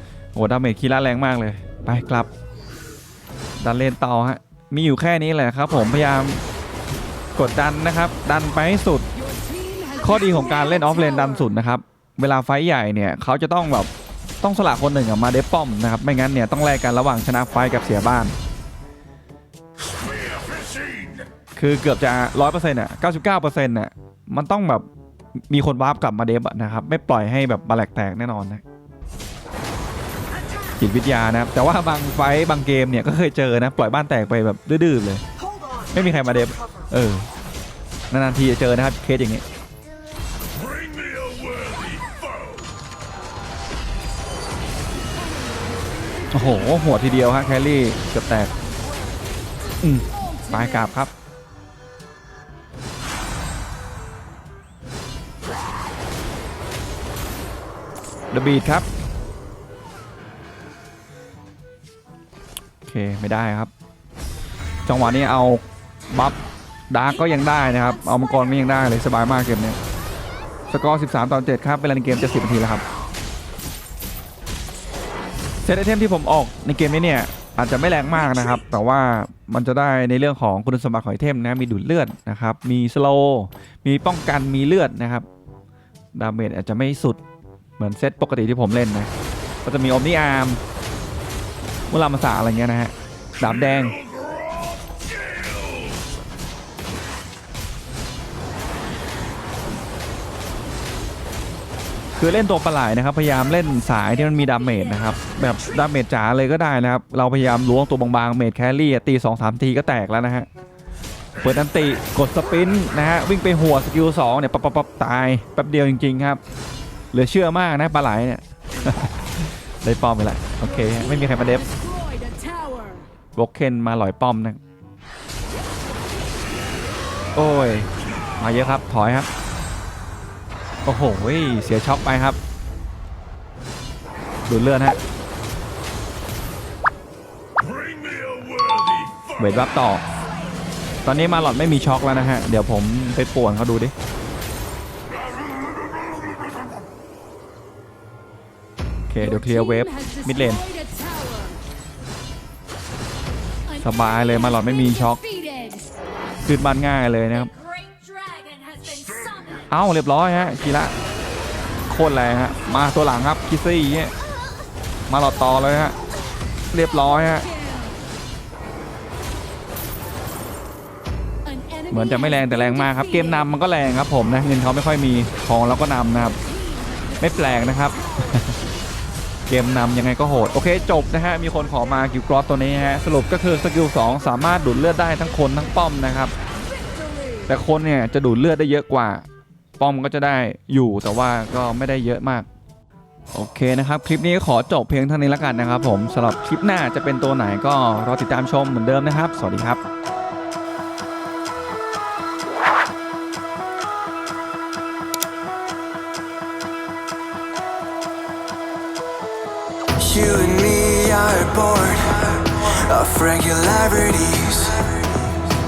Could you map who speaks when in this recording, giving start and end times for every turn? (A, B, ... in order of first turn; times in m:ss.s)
0:00.3-0:02.3 A
0:03.6-0:06.4 A
0:07.4-0:09.1 A
0:10.0-0:13.9 A
0:14.4-0:18.3 A
0:21.6-0:24.8 A
0:25.5-0:28.6 A
0:30.8-0:35.2 A
0:35.9-0:37.2 A
0:38.1-0:39.4 A
0:40.9-0:42.0 B
0:46.3-0:48.6 A
0:49.8-0:51.1 A
0:58.3-0:58.8 A
1:02.8-1:03.7 A
1:04.8-1:06.4 A
1:06.9-1:09.8 A
1:10.7-1:12.8 A
1:15.6-1:25.2 A
1:26.1-1:27.2 A
1:27.8-1:29.1 A
1:29.6-1:30.6 A
1:31.9-1:34.0 A
1:42.2-1:50.5 A
1:51.4-1:56.4 A
1:57.1-2:01.7 A
2:01.8-2:03.0 C
2:03.4-2:04.6 A
2:07.3-2:09.3 A
2:10.8-2:12.4 A
2:14.5-2:15.0 A
2:19.4-2:20.0 A
2:21.0-2:23.9 A
2:29.1-2:30.7 A
2:30.7-2:31.6 C
2:33.8-2:35.2 A
2:35.5-2:35.8 C
2:36.4-2:37.5 A
2:37.6-2:39.4 C
2:38.8-2:39.5 B
2:39.7-2:40.9 A
2:41.9-2:44.1 A
2:45.1-2:46.0 A
2:46.7-2:47.5 A
2:47.5-2:48.0 C
2:51.9-2:56.4 A
2:57.2-2:58.6 A
2:59.5-3:06.3 A
3:07.5-3:09.2 A
3:09.8-3:12.5 A
3:13.3-3:19.8 A
3:30.0-3:35.0 B